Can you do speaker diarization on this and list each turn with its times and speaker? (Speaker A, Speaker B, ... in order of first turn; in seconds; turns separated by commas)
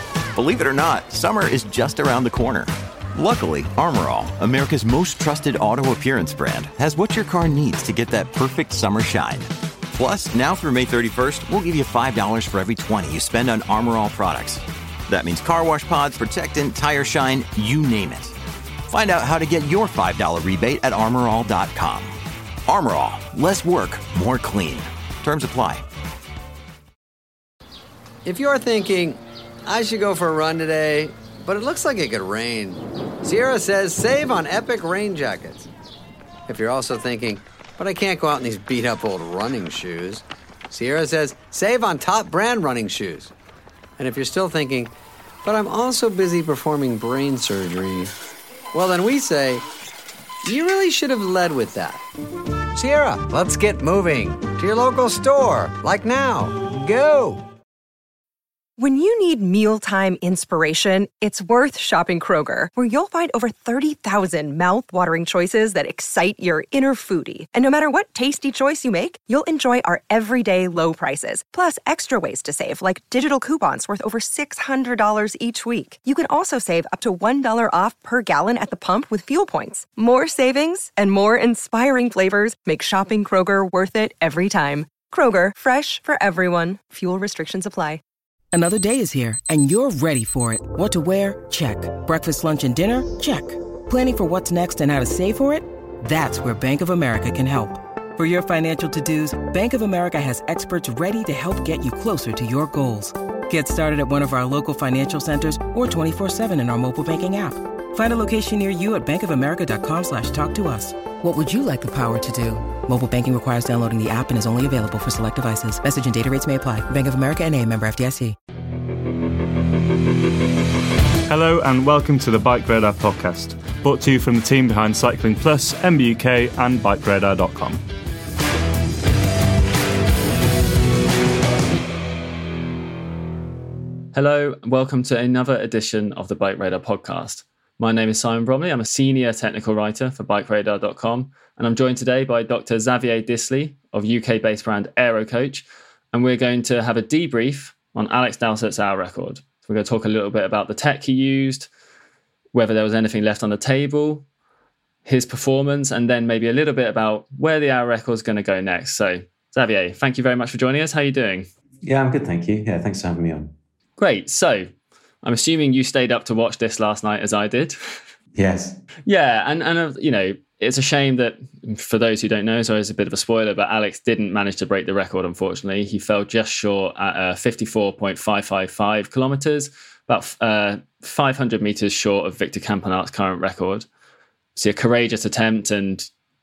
Speaker A: 0.3-18.4, Speaker A: 18.9-22.1, Speaker A: 22.6-25.8, Speaker B: 28.2-35.7, Speaker B: 36.5-43.3, Speaker B: 44.0-44.9, Speaker B: 45.4-48.1, Speaker B: 48.7-49.6, Speaker B: 50.4-52.0, Speaker B: 52.7-57.5, Speaker C: 58.8-88.0, Speaker D: 88.5-118.3, Speaker E: 121.3-127.8, Speaker F: 134.1-151.7, Speaker F: 152.5-154.2, Speaker F: 155.0-161.5, Speaker G: 161.8-163.5, Speaker F: 164.0-164.7, Speaker F: 165.2-168.0, Speaker G: 168.3-168.8, Speaker F: 169.1-183.9, Speaker F: 184.6-186.1